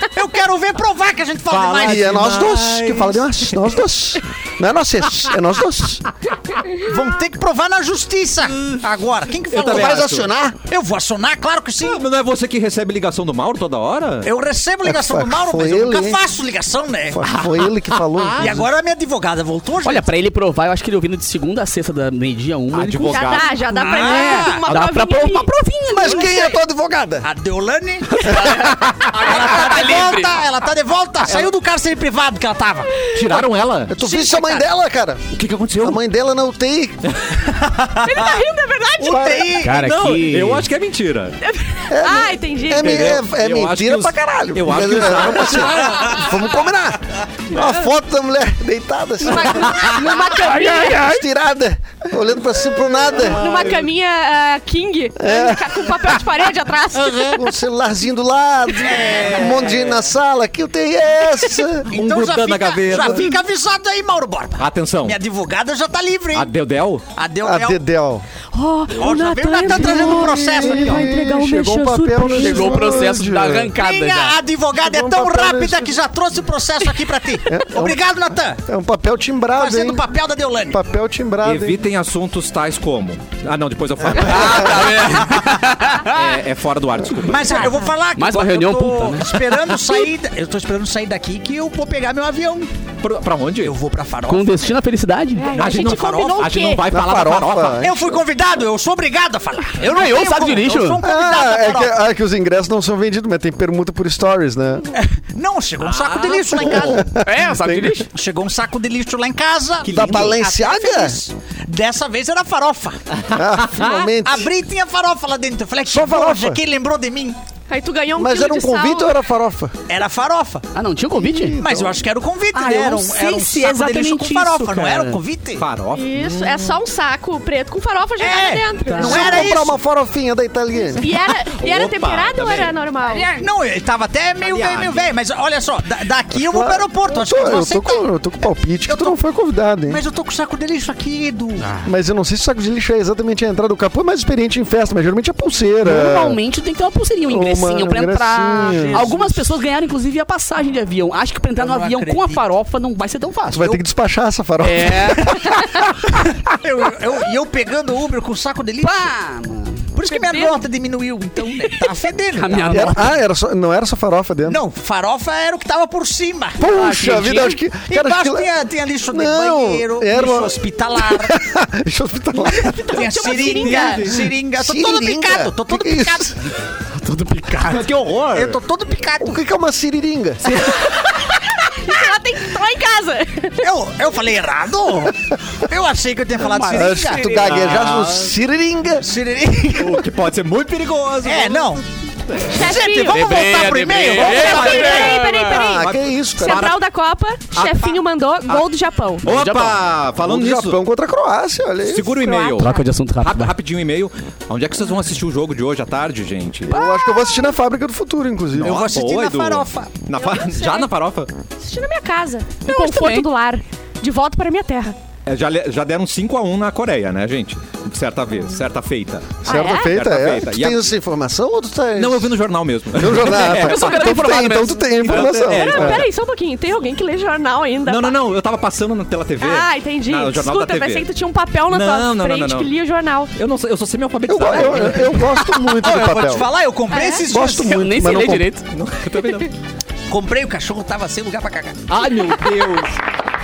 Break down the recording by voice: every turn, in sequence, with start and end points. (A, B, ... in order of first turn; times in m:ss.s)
0:00.1-0:02.2 A
0:01.5-0:03.7 B
0:01.8-0:06.0 C
0:06.3-0:06.6 B
0:06.8-0:10.1 A
0:08.5-0:08.8 B
0:09.5-0:10.3 B
0:09.6-0:10.6 C
0:10.7-0:12.0 A
0:11.8-0:14.3 B
0:14.2-0:17.3 A
0:14.8-0:16.2 C
0:17.1-0:18.6 C
0:17.3-0:18.6 B
0:18.4-0:20.1 A
0:19.8-0:26.6 D
0:22.7-0:23.6 B
0:23.1-0:25.5 E
0:23.7-0:24.6 A
0:25.9-0:27.3 C
0:27.2-0:33.1 A
0:28.1-0:30.4 D
0:33.1-0:34.0 B
0:33.9-0:35.3 C
0:34.0-0:34.7 A
0:35.3-0:36.0 B
0:35.8-0:37.0 C
0:37.1-0:37.4 B
0:37.5-0:38.4 A
0:38.0-0:39.6 E
0:39.0-0:39.8 A
0:39.1-0:39.5 C
0:39.6-0:40.7 D
0:39.7-0:41.4 B
0:41.4-0:43.2 E
0:41.9-0:53.8 C
0:42.8-0:46.4 B
0:49.2-0:51.1 E
0:50.1-0:51.2 D
0:53.2-0:53.8 B
0:53.2-0:57.5 E
0:55.2-0:56.2 C
0:57.1-1:01.9 C
0:58.8-0:59.7 A
0:59.0-1:00.1 B
1:01.9-1:06.5 A
1:01.9-1:03.4 B
1:04.6-1:05.2 B
1:06.3-1:07.0 B
1:07.1-1:07.8 A
1:07.4-1:08.2 C
1:08.5-1:12.9 E
1:09.0-1:11.1 A
1:09.6-1:13.7 C
1:12.3-1:14.4 D
1:13.8-1:18.6 A
1:14.8-1:16.0 C
1:17.5-1:18.0 C
1:18.6-1:20.0 C
1:19.6-1:20.8 A
1:20.7-1:21.8 C
1:21.4-1:25.3 B
1:24.1-1:26.3 D
1:26.0-1:27.7 B
1:27.2-1:32.7 A
1:27.5-1:27.9 E
1:28.2-1:29.4 D
1:33.0-1:33.8 B
1:33.6-1:34.8 A
1:34.3-1:35.5 D
1:35.4-1:36.9 E
1:35.5-1:37.9 B
1:35.6-1:36.5 A
1:36.9-1:38.2 C
1:37.8-1:42.0 A
1:39.8-1:41.0 D
1:41.0-1:44.9 C
1:44.9-1:47.1 A
1:45.8-1:47.0 B
1:46.5-1:48.0 C
1:47.1-1:48.1 D
1:48.1-1:53.0 A
1:49.9-1:50.4 B
1:49.9-1:51.2 C
1:53.1-1:54.1 B
1:53.3-1:54.5 C
1:54.2-1:57.4 A
1:55.9-1:56.6 C
1:57.7-1:59.1 E
1:58.2-1:59.7 C
1:59.9-2:00.7 A
2:00.7-2:01.6 D
2:01.1-2:02.0 C
2:01.6-2:05.6 A
2:02.5-2:05.2 D
2:05.6-2:06.8 B
2:05.9-2:09.6 E
2:08.2-2:09.7 A
2:08.9-2:09.3 D
2:09.0-2:11.1 C
2:10.9-2:13.3 E
2:11.5-2:12.7 B
2:13.1-2:13.4 D
2:13.1-2:18.0 A
2:14.4-2:15.1 B
2:16.4-2:20.0 C
2:18.9-2:19.2 A
2:19.9-2:21.6 A
2:21.6-2:21.9 D
2:21.8-2:26.4 C
2:25.8-2:33.8 D
2:27.3-2:29.1 C
2:28.6-2:29.3 A
2:31.6-2:32.4 A
2:33.5-2:35.9 C
2:34.6-2:35.4 D
2:36.4-2:39.1 A
2:38.8-2:39.9 D
2:39.9-2:43.0 A
2:40.1-2:40.6 E
2:42.4-2:43.2 D
2:42.7-2:44.6 C
2:44.4-2:46.6 A
2:46.6-2:48.5 C
2:46.6-2:47.6 D
2:47.9-2:51.4 A
2:49.1-2:53.1 C
2:52.5-2:54.1 E
2:52.7-2:56.5 A
2:53.4-2:54.2 B
2:54.6-2:56.4 C
2:57.0-2:57.9 D
2:57.6-2:58.6 B
2:58.3-2:59.4 A
2:59.2-3:00.6 C
3:00.8-3:03.6 E
3:03.6-3:07.3 A
3:06.4-3:07.7 D
3:06.7-3:09.1 C
3:07.4-3:08.3 B
3:09.0-3:10.1 A
3:09.8-3:12.5 B
3:11.2-3:11.8 A
3:12.4-3:13.2 E
3:12.5-3:15.2 A
3:13.1-3:15.7 D
3:14.1-3:15.1 B
3:14.2-3:19.3 E
3:15.4-3:16.8 C
3:15.8-3:16.8 B
3:17.5-3:18.7 B
3:19.2-3:20.8 B
3:19.2-3:19.8 D
3:20.2-3:22.3 C
3:21.8-3:26.8 B
3:22.2-3:22.8 E
3:22.6-3:23.5 D
3:26.7-3:28.9 C
3:26.7-3:27.4 E
3:28.6-3:30.0 A
3:28.6-3:31.3 B
3:30.2-3:30.8 E
3:31.6-3:35.0 E
3:32.7-3:33.3 D
3:35.3-3:40.9 B
3:39.4-3:42.4 C
3:39.4-3:40.0 E
3:42.0-3:44.1 B
3:42.9-3:46.1 C
3:43.2-3:45.1 D
3:45.0-3:46.1 B
3:45.1-3:48.2 E
3:47.8-3:51.1 B
3:49.4-3:53.3 E
3:51.7-3:52.7 B
3:53.4-3:55.3 B
3:54.3-3:56.5 C
3:55.5-3:57.8 A
3:56.9-3:57.2 E
3:57.2-3:58.5 C
3:57.5-3:58.7 D
3:58.7-3:59.5 B
4:00.1-4:01.9 A
4:01.9-4:03.0 B